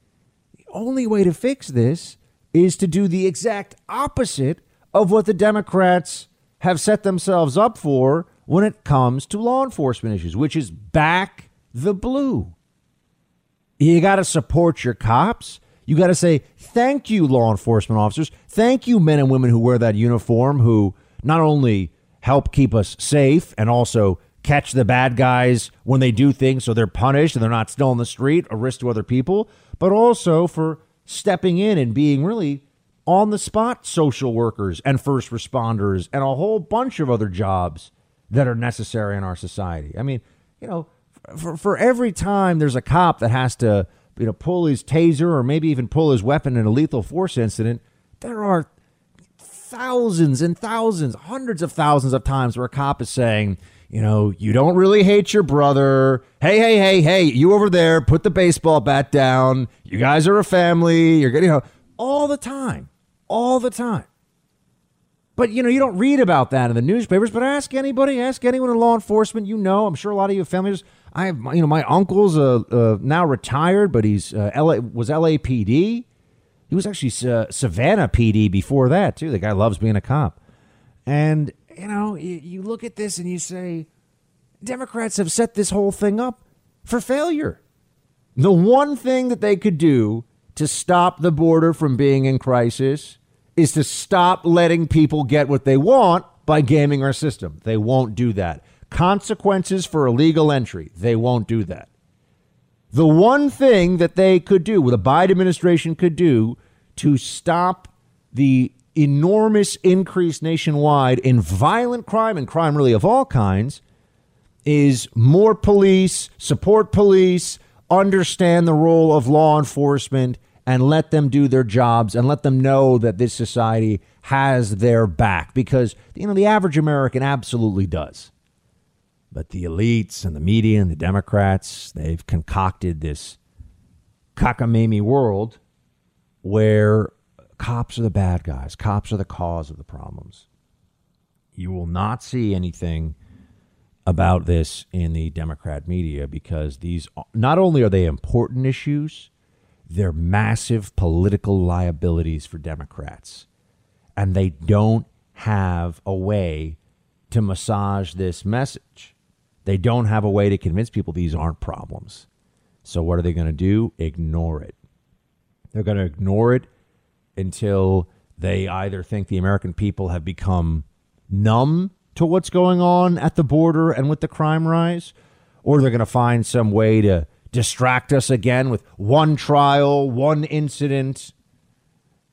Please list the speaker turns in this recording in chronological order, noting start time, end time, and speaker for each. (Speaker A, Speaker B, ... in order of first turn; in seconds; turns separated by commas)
Speaker A: 0.7-12.5, Speaker A: 13.8-48.7, Speaker A: 49.4-64.1, Speaker A: 65.4-76.0, Speaker A: 76.7-80.4, Speaker A: 81.1-83.9, Speaker A: 84.6-87.6, Speaker A: 88.4-101.9, Speaker A: 102.9-113.8, Speaker A: 114.7-128.3, Speaker A: 129.3-133.4, Speaker A: 134.4-135.6, Speaker A: 136.4-140.4, Speaker A: 141.6-143.2, Speaker A: 144.1-149.3, Speaker A: 149.9-153.5, Speaker A: 154.2-156.8, Speaker A: 157.3-159.1, Speaker A: 159.7-162.3, Speaker A: 162.8-164.8, Speaker A: 165.7-166.7, Speaker A: 167.4-175.1, Speaker A: 175.6-181.3